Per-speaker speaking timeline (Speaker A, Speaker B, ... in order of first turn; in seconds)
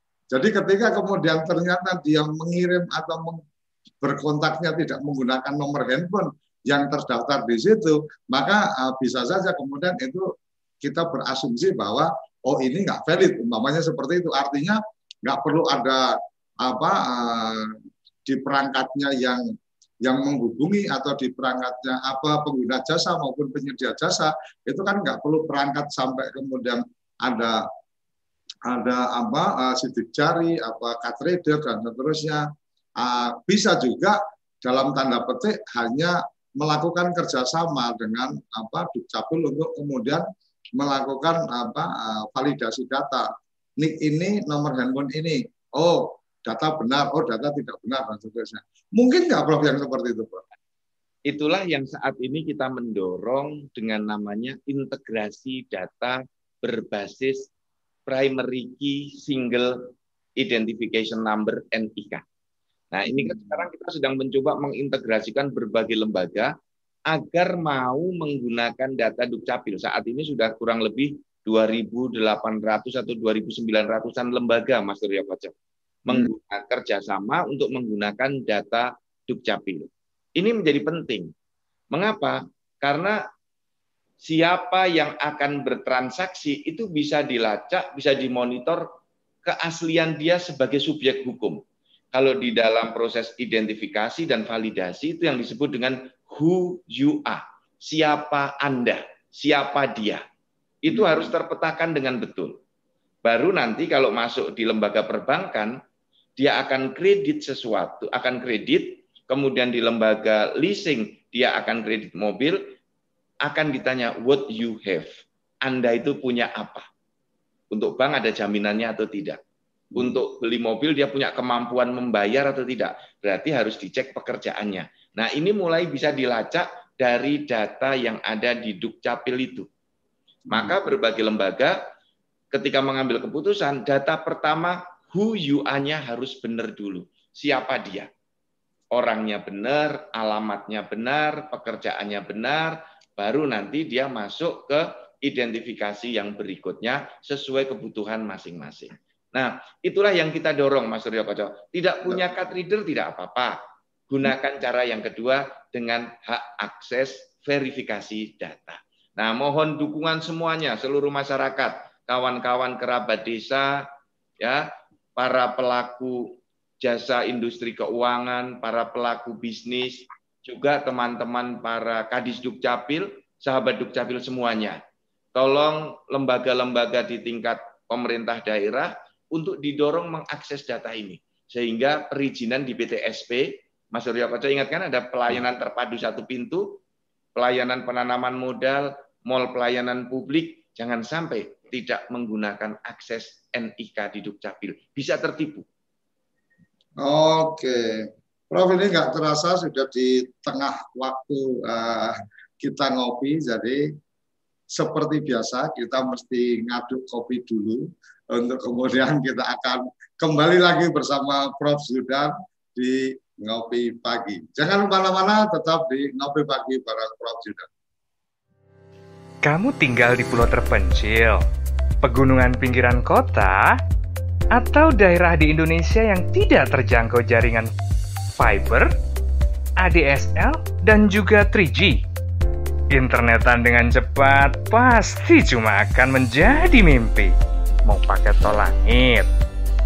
Speaker A: 0.3-3.4, 4.0-10.3, 10.8-19.4, 20.0-27.6, 28.7-32.4, 33.0-40.2, 40.8-50.4, 63.0-63.6, 100.9-101.3, 119.9-120.2, 130.5-130.8, 197.0-203.9, 204.7-217.7
Speaker B: 51.3-57.5, 58.1-59.9, 60.4-62.2, 62.9-66.5, 67.1-75.5, 76.1-81.3, 81.9-83.2, 84.2-88.9, 89.4-91.6, 92.1-100.2, 100.8-102.6, 103.2-105.8, 106.4-112.7, 113.4-115.1, 115.6-116.8, 117.7-119.4, 120.0-129.7, 130.5-131.8, 132.5-138.1, 138.9-153.6, 154.1-163.8, 164.4-174.8, 175.3-186.8, 187.3-195.7
Speaker C: 219.4-221.4, 222.0-223.8, 224.5-227.7, 228.4-228.9, 229.8-232.0, 232.9-239.3